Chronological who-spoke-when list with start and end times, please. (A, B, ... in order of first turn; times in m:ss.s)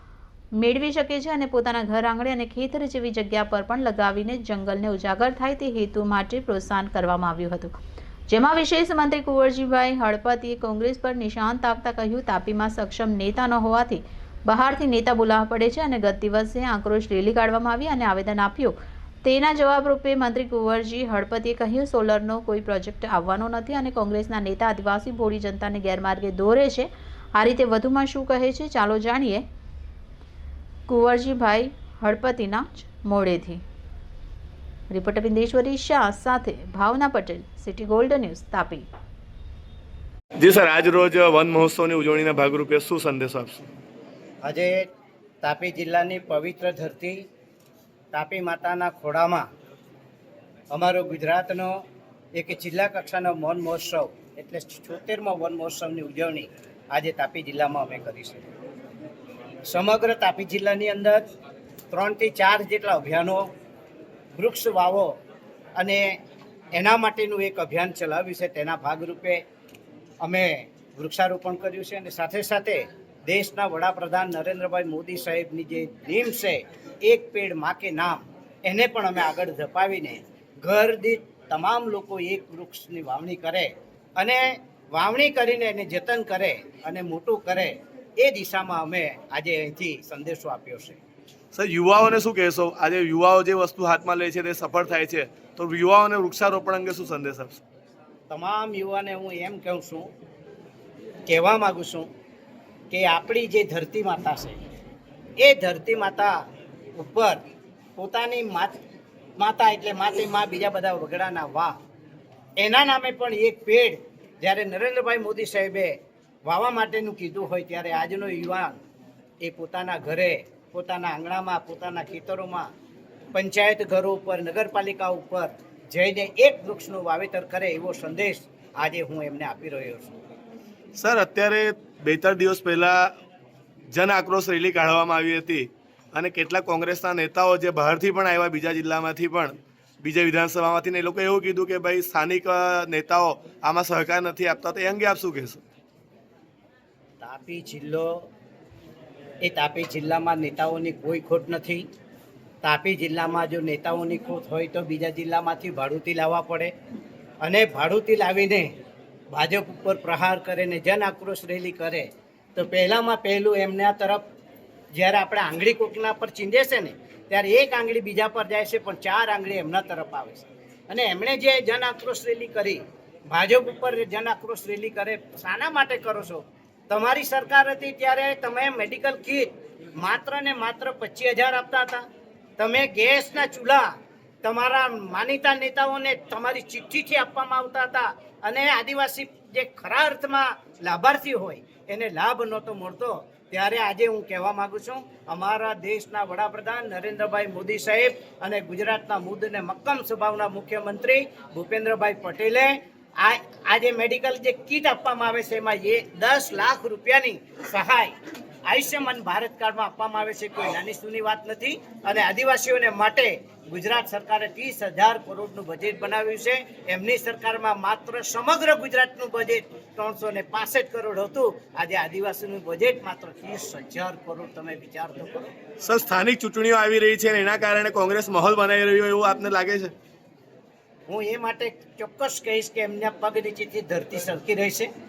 0:00.6-0:07.7 A
0:08.3-0:29.4 A
0:30.9-0:33.6 A
0:34.9-0:38.8 A
0:40.4-0:43.6 B
0:44.4-0:44.8 C
0:45.4-0:47.2 C
0:48.1-0:49.5 C
0:50.7-0:51.8 C
0:52.3-0:58.4 C
0:59.7-1:01.2 C
1:01.9-1:03.5 C
1:04.3-1:05.2 C
1:05.8-1:06.2 C
1:06.7-1:09.4 C
1:10.2-1:31.0 C
1:31.5-1:37.6 B
1:38.3-1:40.1 C
1:41.3-1:42.1 C
1:42.9-1:44.6 C
1:45.4-1:46.4 C
1:47.0-1:47.4 C
1:48.0-1:48.8 C
1:49.4-1:51.8 C
1:52.6-1:58.8 C
1:59.4-2:02.7 C
2:03.3-2:10.2 C
2:11.0-2:13.1 B
2:13.9-2:25.6 B
2:27.2-2:28.3 C
2:29.4-2:31.8 C
2:32.6-2:36.7 C
2:37.4-2:38.7 C
2:39.3-2:44.2 C
2:44.9-3:02.0 C
3:02.6-3:03.9 C
3:04.4-3:28.1 C
3:28.6-3:45.4 C
3:45.8-3:49.9 B
3:51.1-3:54.9 C